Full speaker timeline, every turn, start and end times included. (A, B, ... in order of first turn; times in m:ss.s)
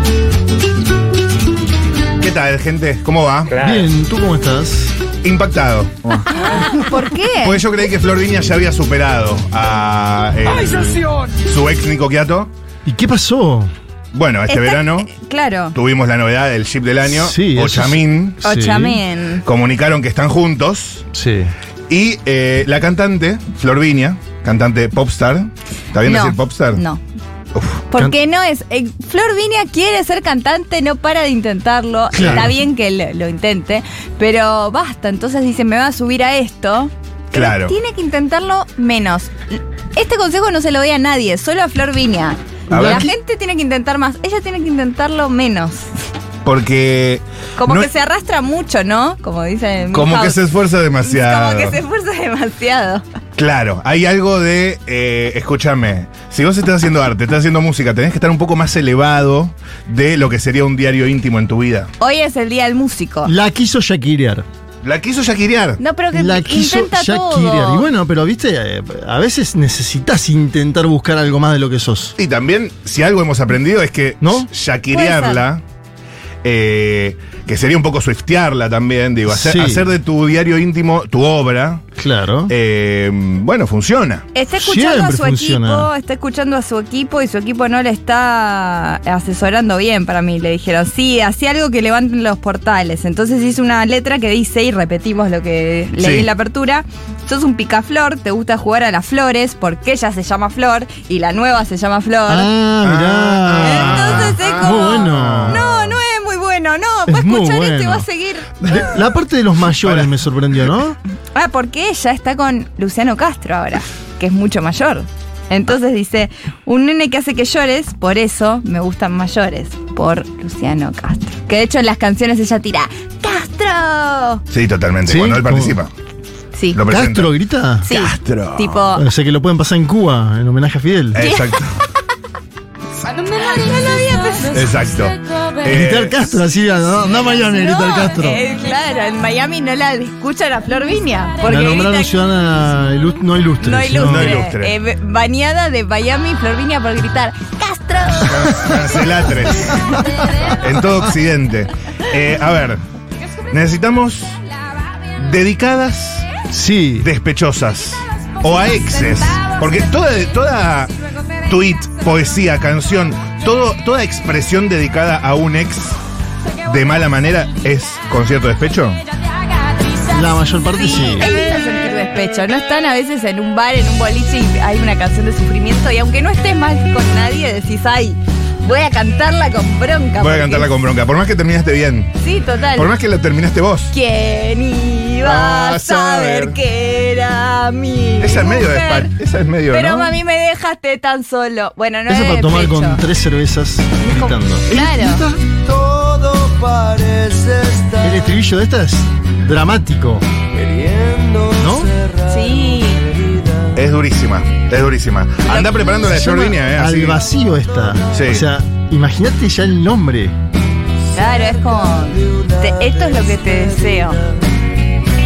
0:02.2-0:03.6 A
0:03.6-0:04.9 B
0:05.2-0:06.3 A
0:06.3-0:07.6 C
0:07.4-0:12.5 A
0:12.8-0:13.7 B
0:14.1-0:15.1 A
0:14.5-0:15.8 C
0:15.7-0:18.4 A
0:17.0-0:19.0 B
0:18.4-0:19.4 C
0:19.4-0:21.0 A
0:21.1-0:21.5 B
0:21.9-0:26.8 A
0:26.1-0:27.0 C
0:27.6-0:27.9 A
0:27.9-0:45.9 C
0:32.1-0:32.5 B
0:32.1-0:32.6 A
0:37.3-0:37.8 A
0:42.7-0:43.1 A
0:42.7-0:43.1 B
0:46.4-0:47.9 A
0:47.6-0:50.4 C
0:49.9-0:51.8 A
0:51.0-0:53.0 C
0:53.4-1:01.9 A
1:02.0-1:03.3 C
1:03.2-1:04.4 B
1:04.8-1:05.8 A
1:05.8-1:07.9 C
1:06.1-1:12.2 B
1:12.2-1:15.6 A
1:14.2-1:14.5 B
1:14.9-1:15.4 C
1:16.4-1:21.8 A
1:19.3-1:19.9 B
1:22.0-1:22.5 B
1:22.5-1:24.2 A
1:24.3-1:42.5 C
1:24.6-1:25.9 B
1:36.0-1:36.3 A
1:42.3-1:45.6 B
1:42.8-1:45.7 A
1:43.6-1:48.8 C
1:47.1-1:48.1 B
1:48.6-1:51.0 B
1:49.8-1:50.1 A
1:51.3-2:04.4 C
2:04.5-2:05.9 A
2:05.0-2:05.8 B
2:06.6-2:06.8 C
2:06.7-2:07.3 A
2:06.9-2:07.9 B
2:07.8-2:09.0 C
2:07.9-2:08.8 A
2:09.0-2:11.2 B
2:11.1-2:11.8 A
2:11.2-2:11.5 C
2:13.0-2:14.7 C
2:14.5-2:16.2 A
2:15.6-2:18.4 B
2:17.4-2:22.1 C
2:21.4-2:24.4 B
2:23.6-2:28.6 C
2:24.0-2:24.7 A
2:28.3-2:32.8 A
2:33.5-2:34.4 A
2:35.2-2:36.3 A
2:36.5-2:37.1 B
2:37.0-2:40.9 A
2:41.5-2:46.0 A
2:46.6-2:49.0 A
2:50.1-2:51.3 B
2:50.8-3:00.7 C
3:00.2-3:02.2 A
3:02.2-3:02.9 C
3:02.7-3:03.9 A
3:03.9-3:09.1 C
3:05.2-3:06.6 A
3:08.2-3:10.2 A
3:09.7-3:13.0 C
3:12.1-3:15.4 B
3:14.0-3:15.2 C
3:15.6-3:18.0 D
3:18.0-3:20.3 B
3:20.6-3:21.6 D
3:21.6-3:21.9 B
3:22.3-3:23.1 C
3:23.8-3:27.2 A
3:25.5-3:25.7 C
3:26.1-3:30.4 B
3:28.1-3:28.4 A
3:31.1-3:34.2 C